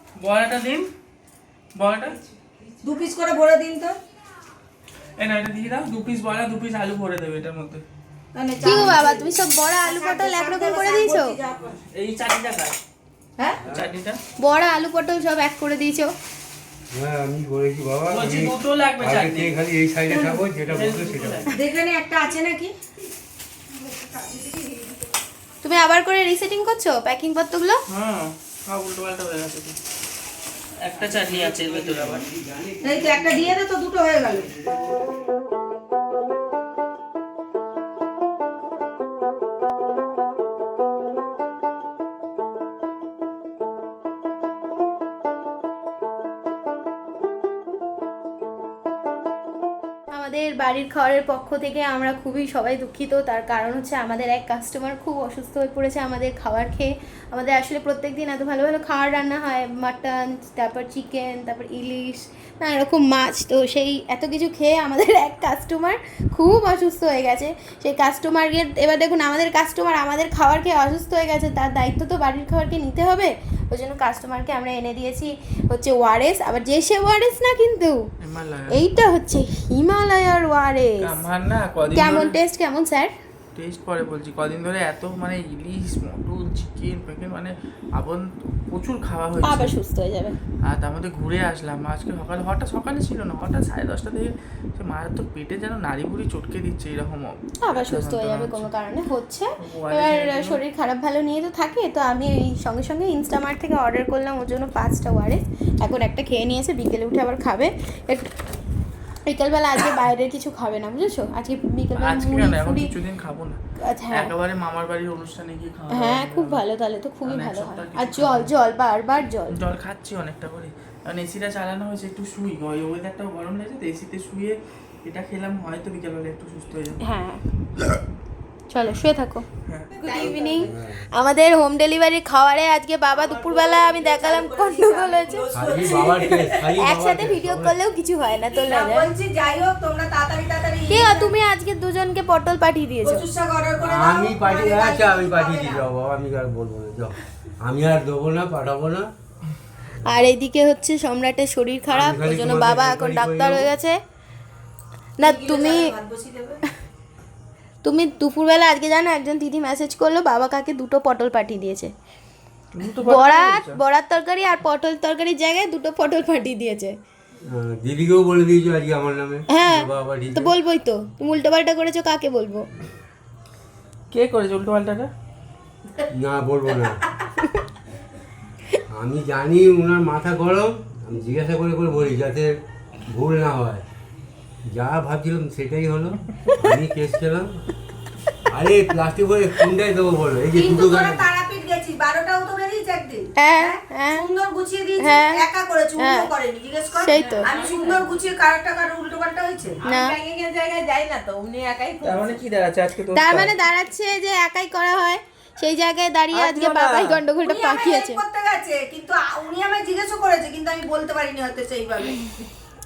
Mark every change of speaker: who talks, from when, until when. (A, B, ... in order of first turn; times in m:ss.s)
0:00.2-0:00.9 A
0:01.8-0:02.2 A
0:02.8-0:04.0 B
0:05.2-0:07.8 A
0:08.4-0:11.8 B
0:08.6-0:11.4 C
0:08.6-0:09.0 A
0:11.7-0:12.8 A
0:13.6-0:13.9 D
0:13.7-0:14.2 A
0:14.4-0:16.1 C
0:16.9-0:21.6 D
0:18.1-0:19.5 A
0:20.1-0:20.4 B
0:20.7-0:21.6 A
0:21.5-0:22.7 B
0:24.2-0:24.6 B
0:25.6-0:27.8 C
0:27.9-0:29.8 A
0:30.8-0:32.3 A
0:30.9-0:33.6 D
0:32.8-0:34.5 B
0:34.2-0:35.0 D
0:50.1-1:18.0 C
1:18.2-1:18.8 A
1:18.7-1:21.1 C
1:21.0-1:22.4 A
1:21.9-1:23.1 C
1:23.6-1:29.7 A
1:29.4-1:30.4 C
1:30.6-1:38.7 A
1:37.6-1:48.3 C
1:39.6-1:40.6 A
1:49.3-1:52.9 C
1:52.0-1:53.6 A
1:53.8-1:54.3 C
1:54.1-1:56.6 A
1:55.9-1:59.6 C
1:57.2-1:58.5 A
1:59.5-2:07.0 A
2:07.0-2:07.4 C
2:08.7-2:09.4 C
2:09.7-2:10.1 A
2:10.0-2:16.1 C
2:10.0-2:10.7 B
2:10.1-2:10.7 E
2:10.6-2:11.1 D
2:13.1-2:16.5 B
2:15.5-2:17.8 D
2:16.8-2:19.1 C
2:18.4-2:21.3 B
2:20.9-2:23.3 C
2:23.0-2:25.8 B
2:23.8-2:29.1 D
2:30.0-2:34.0 C
2:31.9-2:33.7 D
2:35.2-2:36.0 C
2:35.2-2:36.6 B
2:37.8-2:41.9 C
2:42.7-2:43.8 A
2:43.0-2:47.0 C
2:47.4-2:50.5 D
2:49.5-2:52.7 C
2:54.1-2:55.1 A
2:56.1-2:57.1 D
2:58.9-3:02.5 D
3:03.1-3:03.8 D
3:04.7-3:07.5 D
3:08.5-3:11.3 D
3:10.5-3:19.8 B
3:13.4-3:14.3 C
3:15.0-3:15.4 C
3:16.0-3:16.3 C
3:16.9-3:17.5 C
3:17.1-3:18.0 E
3:19.8-3:22.4 E
3:19.8-3:20.2 C
3:22.0-3:23.5 A
3:23.1-3:28.2 C
3:26.3-3:27.2 A
3:27.4-3:32.3 B